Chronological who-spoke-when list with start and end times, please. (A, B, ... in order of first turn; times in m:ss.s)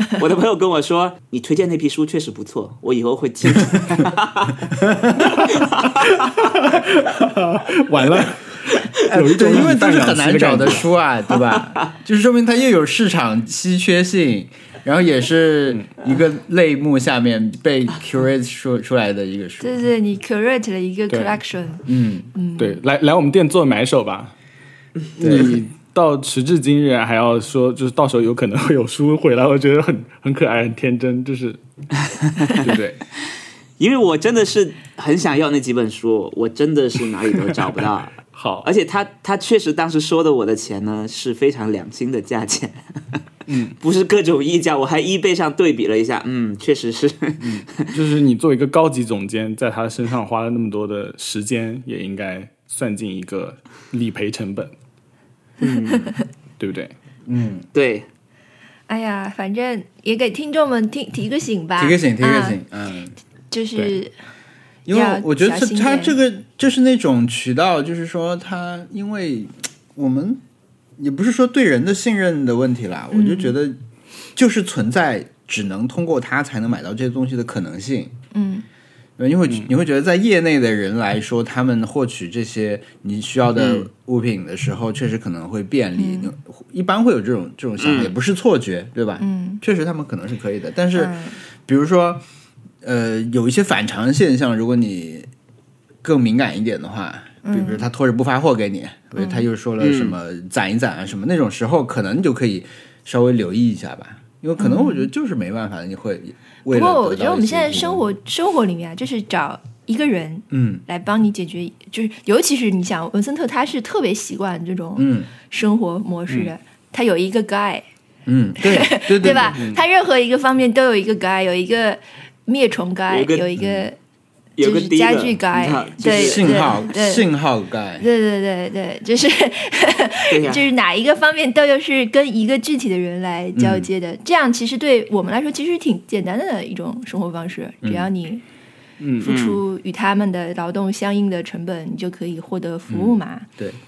0:00.2-0:06.3 A
0:04.8-0:05.3 B
0:06.0-0:10.9 C
0:09.1-0:19.7 B
0:19.6-0:22.8 D
0:21.1-0:21.4 C
0:21.9-0:22.3 B
0:22.6-0:24.3 C
0:25.2-0:25.6 B
0:25.2-0:31.6 C
0:32.2-0:32.7 A
0:32.6-0:33.0 C
0:33.8-0:43.2 A
0:38.3-0:38.7 C
0:43.5-0:43.8 C
0:43.8-0:47.9 A
0:47.4-0:54.7 C
0:55.6-0:56.1 A
0:56.6-0:56.9 C
0:57.3-0:57.7 B
0:57.7-0:58.1 A
0:58.9-1:02.6 D
1:01.8-1:03.1 B
1:03.5-1:04.1 D
1:04.9-1:10.4 B
1:04.9-1:06.2 D
1:11.0-1:13.8 B
1:13.1-1:13.6 D
1:14.4-1:18.1 B
1:18.3-1:18.7 D
1:19.2-1:32.2 B
1:23.6-1:23.9 A
1:26.0-1:26.3 D
1:27.8-1:28.1 A
1:29.2-1:29.6 D
1:31.0-1:31.4 D
1:32.8-1:35.3 B
1:36.0-1:48.0 B
1:37.4-1:37.9 D
1:39.2-1:39.5 D
1:39.8-1:40.2 A
1:44.6-1:45.1 D
1:46.7-1:57.8 D
1:50.5-1:50.8 B
1:55.0-1:55.3 B
1:58.3-1:59.7 B
1:58.6-2:04.0 D
2:03.1-2:03.5 A
2:03.6-2:03.9 B
2:04.6-2:06.8 A
2:04.6-2:07.3 D
2:06.1-2:08.1 B
2:08.0-2:18.4 D
2:10.3-2:10.7 A
2:13.6-2:13.9 B
2:19.0-2:19.4 C
2:19.2-2:23.5 D
2:19.2-2:19.6 A
2:22.9-2:23.8 B